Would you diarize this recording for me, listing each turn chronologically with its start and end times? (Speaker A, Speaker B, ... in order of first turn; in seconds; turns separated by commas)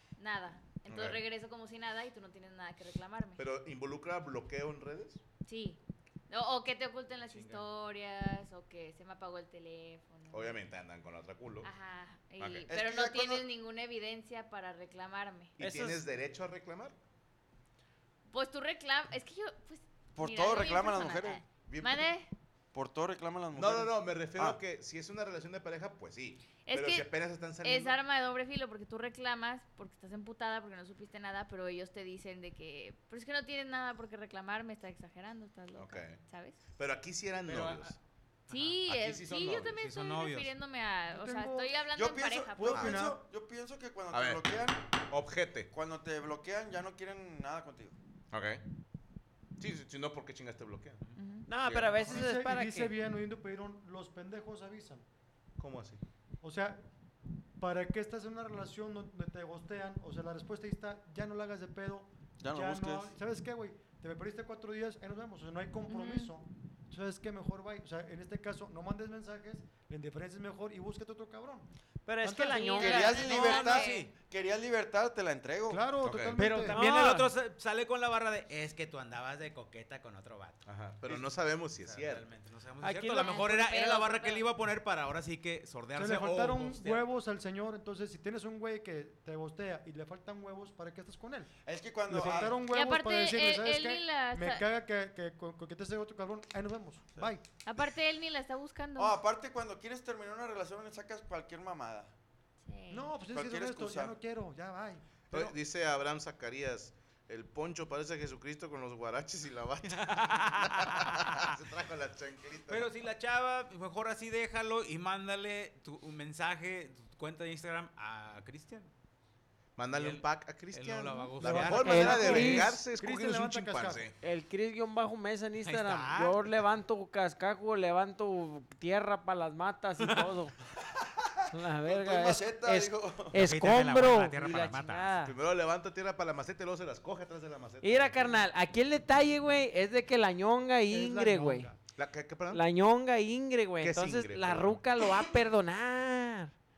Speaker A: 0.2-3.4, Speaker B: 0.9-1.2, Speaker B: 3.4-5.2, Speaker A: 5.5-10.6, Speaker C: 7.3-7.6, Speaker B: 10.3-11.7, Speaker A: 11.6-15.6, Speaker B: 12.4-12.7, Speaker D: 12.7-13.4, Speaker B: 15.6-16.9, Speaker E: 15.6-16.0, Speaker A: 18.3-22.3, Speaker D: 20.1-21.4, Speaker B: 21.7-22.1, Speaker D: 22.7-24.6, Speaker B: 23.5-28.0, Speaker A: 26.6-27.1, Speaker A: 27.6-36.6, Speaker B: 35.7-36.2, Speaker B: 36.8-37.9, Speaker C: 37.5-38.0, Speaker A: 38.5-43.1, Speaker C: 38.5-38.8, Speaker B: 38.9-39.8, Speaker C: 39.8-40.5, Speaker F: 41.1-41.7, Speaker D: 41.9-44.8, Speaker F: 42.6-43.2, Speaker B: 44.1-44.4, Speaker B: 45.1-45.7, Speaker D: 45.7-48.0, Speaker B: 48.3-48.6, Speaker B: 49.6-51.0, Speaker A: 51.2-51.5, Speaker E: 51.5-52.9, Speaker B: 51.6-52.2, Speaker F: 52.0-55.0, Speaker B: 55.6-56.0, Speaker F: 56.4-56.8, Speaker F: 57.6-71.7, Speaker D: 62.4-63.1, Speaker A: 65.9-66.3, Speaker E: 72.0-73.9, Speaker F: 72.2-72.8, Speaker A: 72.6-74.1, Speaker D: 72.8-76.0, Speaker C: 73.1-74.1, Speaker F: 75.7-76.8, Speaker B: 76.0-76.4, Speaker C: 76.4-81.1, Speaker E: 76.4-77.3, Speaker B: 80.7-82.2, Speaker C: 81.8-87.0, Speaker E: 82.8-83.4, Speaker A: 83.2-84.5, Speaker F: 86.0-91.5, Speaker D: 91.6-92.5, Speaker F: 92.1-97.4, Speaker A: 92.7-94.6, Speaker A: 97.6-99.2, Speaker D: 99.0-102.1, Speaker A: 102.7-103.1, Speaker F: 102.9-105.5, Speaker D: 103.3-104.2, Speaker B: 105.3-112.9, Speaker C: 110.0-111.4, Speaker C: 112.7-118.9, Speaker B: 119.8-124.2, Speaker C: 119.9-122.7, Speaker F: 121.4-124.0, Speaker E: 121.8-122.7, Speaker E: 124.2-130.5, Speaker C: 125.6-126.5, Speaker C: 130.0-130.3, Speaker E: 131.5-135.3, Speaker D: 131.8-133.4, Speaker C: 133.3-135.2, Speaker B: 135.2-138.4, Speaker E: 137.8-141.7, Speaker F: 140.9-141.8, Speaker B: 141.9-142.6, Speaker E: 142.5-146.5, Speaker B: 143.8-144.8